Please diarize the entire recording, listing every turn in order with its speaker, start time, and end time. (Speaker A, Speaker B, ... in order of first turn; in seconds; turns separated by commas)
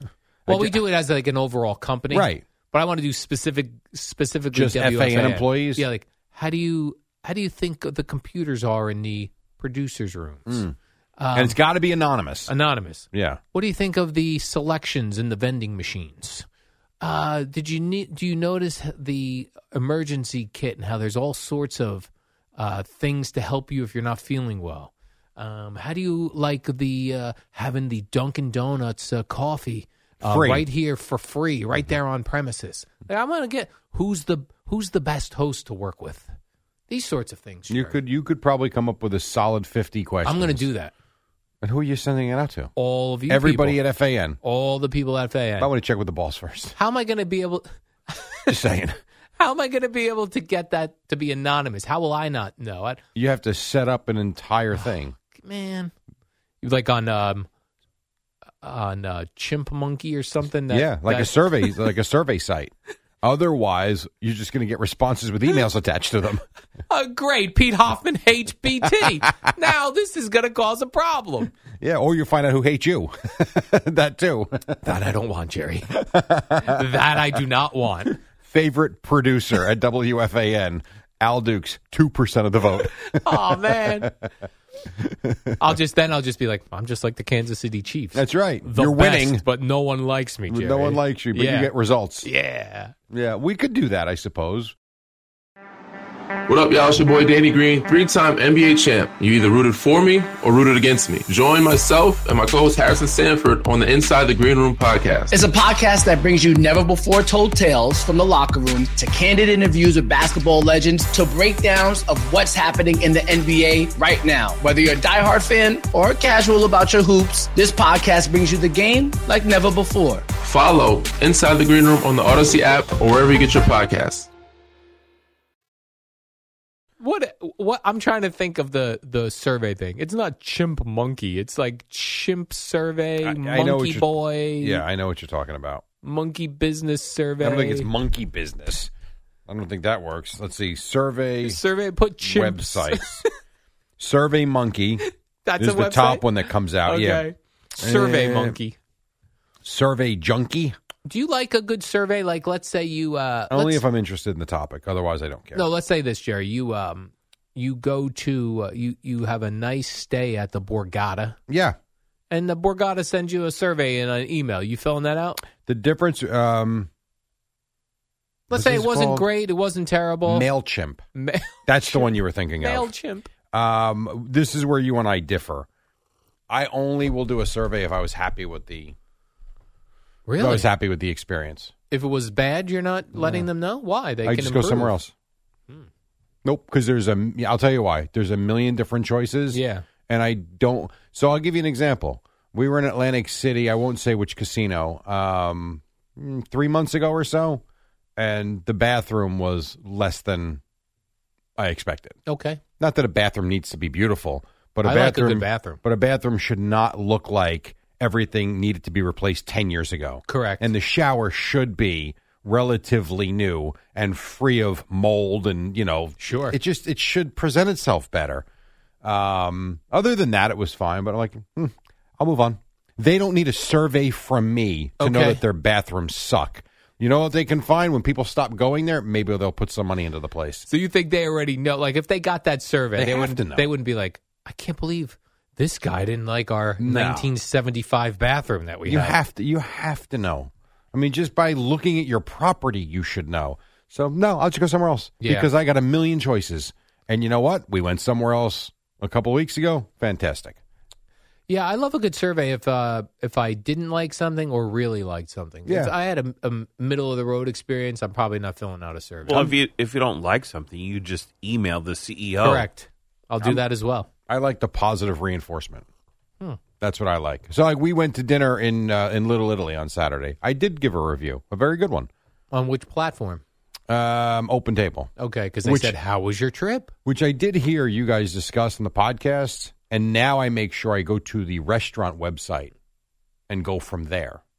Speaker A: 0.5-0.8, Speaker B: 0.5-10.6, Speaker A: 2.1-2.4, Speaker A: 4.5-5.8, Speaker A: 10.5-10.7, Speaker B: 11.2-11.6, Speaker A: 11.3-12.5, Speaker B: 12.5-16.4, Speaker A: 13.1-13.4, Speaker B: 17.0-36.3, Speaker A: 30.2-30.7, Speaker B: 36.9-38.0, Speaker A: 37.7-40.7, Speaker B: 40.2-40.9, Speaker A: 41.6-42.7, Speaker B: 42.8-43.8, Speaker A: 43.3-44.4, Speaker B: 44.4-45.7, Speaker A: 45.6-46.8, Speaker B: 46.7-48.6, Speaker A: 48.5-49.0, Speaker B: 49.4-53.0, Speaker A: 53.1-55.1, Speaker B: 54.7-55.9, Speaker B: 56.6-57.5, Speaker B: 58.6-61.8, Speaker A: 60.7-66.4, Speaker B: 66.9-71.5, Speaker A: 71.8-74.8, Speaker B: 74.8-78.2, Speaker A: 78.4-84.1, Speaker B: 82.8-84.2, Speaker A: 85.2-85.5, Speaker B: 85.6-91.7, Speaker A: 88.1-89.4, Speaker A: 90.5-92.3, Speaker B: 92.2-92.9, Speaker A: 93.1-94.7, Speaker C: 96.5-105.5, Speaker D: 105.3-120.2, Speaker C: 120.4-124.3, Speaker B: 127.0-134.8, Speaker A: 133.2-135.8, Speaker B: 136.0-137.9, Speaker A: 137.4-138.9, Speaker A: 139.5-141.6, Speaker B: 141.4-143.2, Speaker A: 142.2-143.2, Speaker A: 144.0-145.0, Speaker B: 145.4-148.8, Speaker A: 145.6-147.3, Speaker A: 147.8-148.6, Speaker A: 149.6-150.8, Speaker B: 151.0-153.8, Speaker A: 153.5-155.7, Speaker B: 155.5-161.4, Speaker A: 161.5-161.7, Speaker B: 162.3-165.4, Speaker A: 165.6-166.9, Speaker B: 168.5-170.5, Speaker A: 168.5-169.3, Speaker A: 170.2-171.0, Speaker B: 171.2-173.3, Speaker A: 171.7-172.9, Speaker A: 173.5-175.7, Speaker A: 176.5-178.9, Speaker B: 180.2-180.7, Speaker A: 180.4-181.7, Speaker B: 181.9-185.0, Speaker A: 183.2-183.5, Speaker A: 184.2-185.1, Speaker A: 186.4-197.6, Speaker B: 189.5-189.8, Speaker A: 198.2-200.6, Speaker A: 201.6-202.2, Speaker B: 202.2-202.6, Speaker A: 202.8-218.4, Speaker B: 204.8-205.8, Speaker B: 210.3-210.7, Speaker B: 216.2-216.6, Speaker A: 219.0-230.7, Speaker B: 225.0-225.4, Speaker B: 230.7-239.2, Speaker A: 232.9-233.7, Speaker A: 236.8-237.3, Speaker A: 238.8-250.6, Speaker B: 245.2-245.5, Speaker B: 251.5-259.5, Speaker A: 255.7-255.9, Speaker E: 259.2-262.7, Speaker B: 262.4-264.1, Speaker A: 264.3-265.8, Speaker A: 266.8-272.1, Speaker B: 272.5-273.4, Speaker A: 273.9-275.1, Speaker B: 275.2-276.9, Speaker A: 275.6-276.0, Speaker A: 277.0-282.7, Speaker A: 283.5-284.4